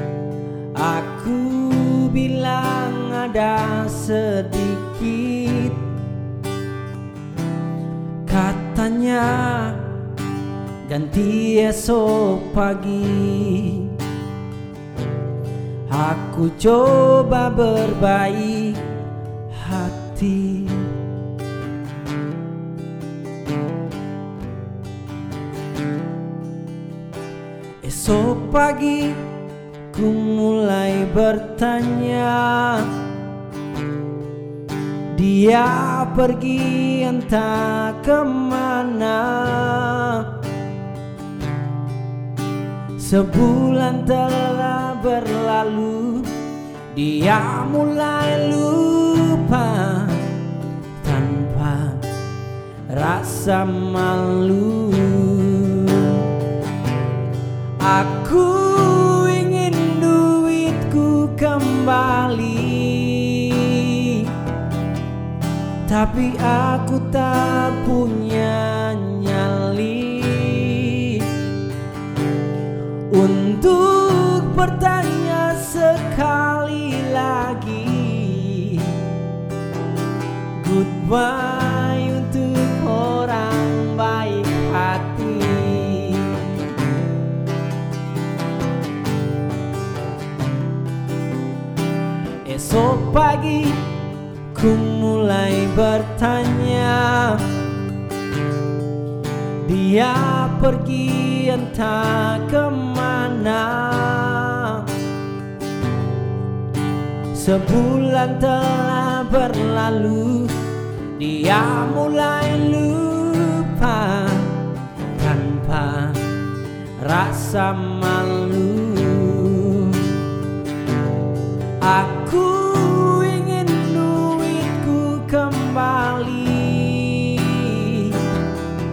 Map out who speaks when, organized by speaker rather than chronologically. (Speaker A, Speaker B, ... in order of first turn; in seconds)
Speaker A: 0.8-5.9, 8.3-10.0, 10.9-14.0, 15.9-18.8, 19.5-21.0, 27.8-29.3, 29.9-33.0, 35.1-40.4, 43.0-46.3, 46.9-50.3, 51.0-52.1, 52.9-56.3, 57.8-64.3, 65.9-71.4, 73.1-79.1, 80.6-86.6, 92.5-93.9, 94.5-97.5, 99.6-104.9, 107.3-110.6, 111.2-116.3, 117.0-120.2, 121.8-128.3